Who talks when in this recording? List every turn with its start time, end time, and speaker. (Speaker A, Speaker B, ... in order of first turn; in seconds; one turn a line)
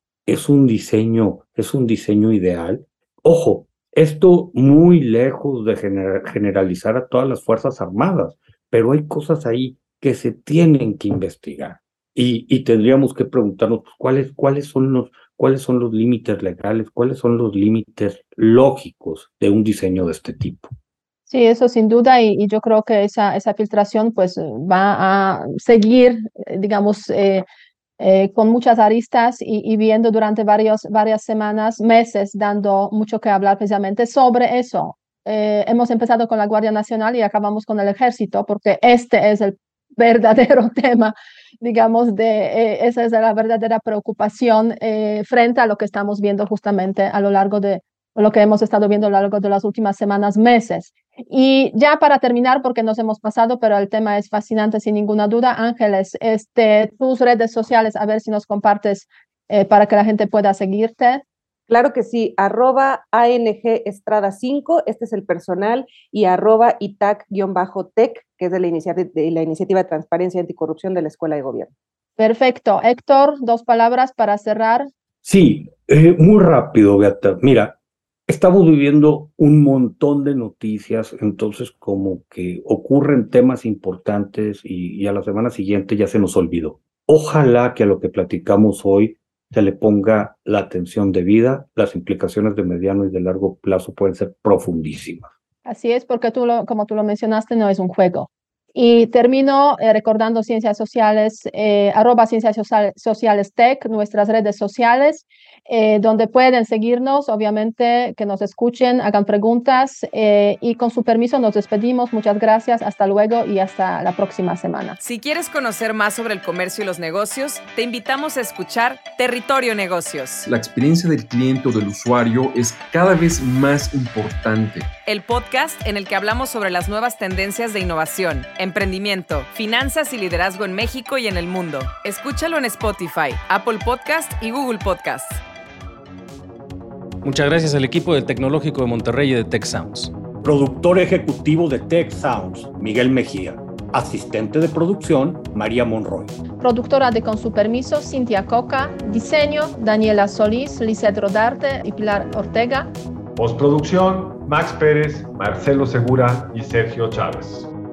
Speaker A: 0.2-20.7
Speaker B: 21.3-27.4
Speaker B: 28.0-61.2
Speaker C: 61.7-71.7
Speaker B: 72.2-74.9
Speaker A: 75.2-77.8
Speaker A: 78.3-95.3
Speaker B: 95.7-115.0
Speaker D: 115.0-120.5
Speaker E: 120.4-124.9
Speaker D: 125.0-135.4
Speaker F: 137.2-140.1
Speaker A: 140.4-146.3
Speaker B: 146.6-152.9
Speaker G: 153.3-157.7